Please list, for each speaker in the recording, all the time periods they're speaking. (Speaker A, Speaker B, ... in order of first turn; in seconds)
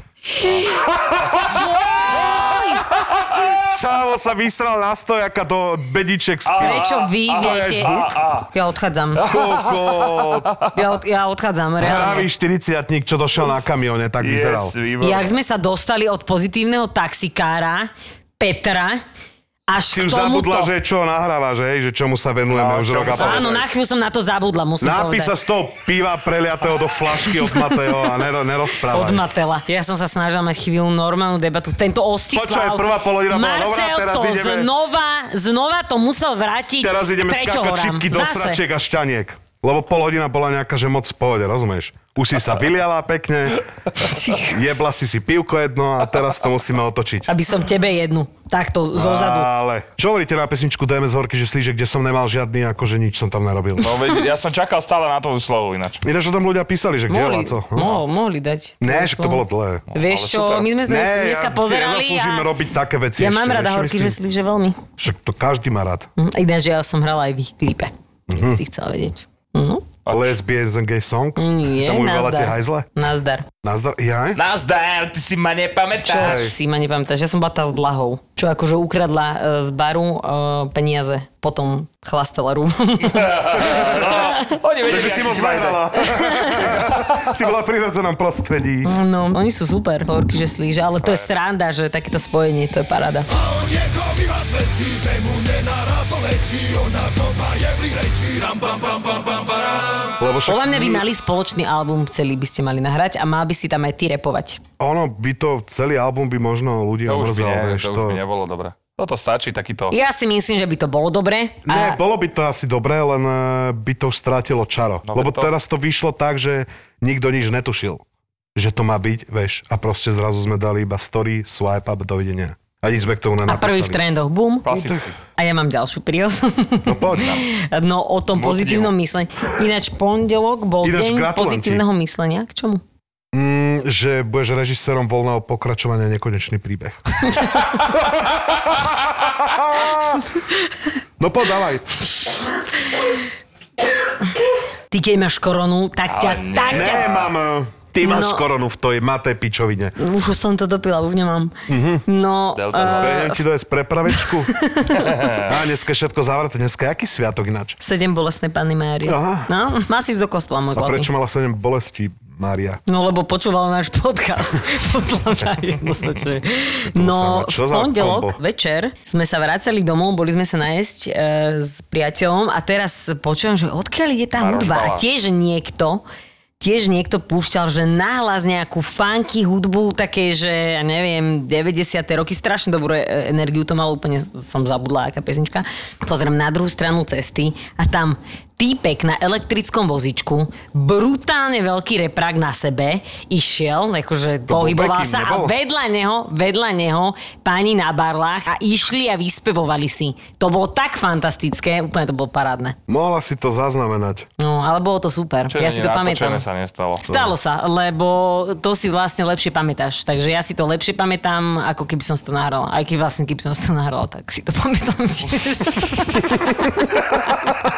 Speaker A: 0.4-0.8, 1.4-2.8, 6.6-9.2, 10.7-12.3, 15.0-19.0, 19.7-20.7, 23.0-25.4, 28.9-38.6, 44.0-44.8, 47.3-49.5, 57.1-62.5, 63.2-64.8, 66.2-69.9, 71.4-73.5, 76.0-84.5, 86.1-86.7, 88.8-93.3, 100.5-104.6, 109.9-112.0, 123.5-124.7, 125.4-132.8, 144.9-147.1, 148.0-148.5, 150.0-151.6, 152.1-153.4, 154.1-155.1, 157.8-161.1, 162.9-176.0, 176.6-202.8, 204.4-206.4, 207.0-217.3
Speaker B: 1.0-1.6, 3.5-8.2, 9.2-10.5, 11.8-14.8, 19.9-23.6, 24.8-29.3, 32.3-34.7, 36.8-43.6, 44.5-47.3, 48.9-54.0, 56.0-58.0, 58.8-59.8, 60.9-64.2, 65.0-66.1, 68.3-68.6, 70.1-72.9, 73.6-74.4, 76.2-76.5, 83.6-88.9, 100.2-101.1, 104.8-108.2, 111.7-118.0, 118.5-124.0, 124.7-125.1, 126.8-127.4, 130.8-131.8, 133.3-140.2, 141.2-142.0, 146.7-149.9, 151.7-152.0, 152.8-154.5, 155.4-157.8, 159.1-159.5, 160.8-162.8, 166.9-168.4, 194.5-195.5, 202.9-204.3
Speaker C: 3.0-3.5, 6.5-8.5, 9.2-10.7, 14.2-15.4, 22.5-23.7, 53.8-56.0, 59.9-60.7, 70.1-70.4, 74.4-76.4, 83.1-87.4, 91.0-91.3, 98.3-99.2, 107.1-110.0, 115.1-115.5, 124.7-125.2, 127.2-127.4, 128.3-128.9, 146.1-147.3, 152.6-153.4, 155.0-155.5, 174.4-175.1, 205.5-207.1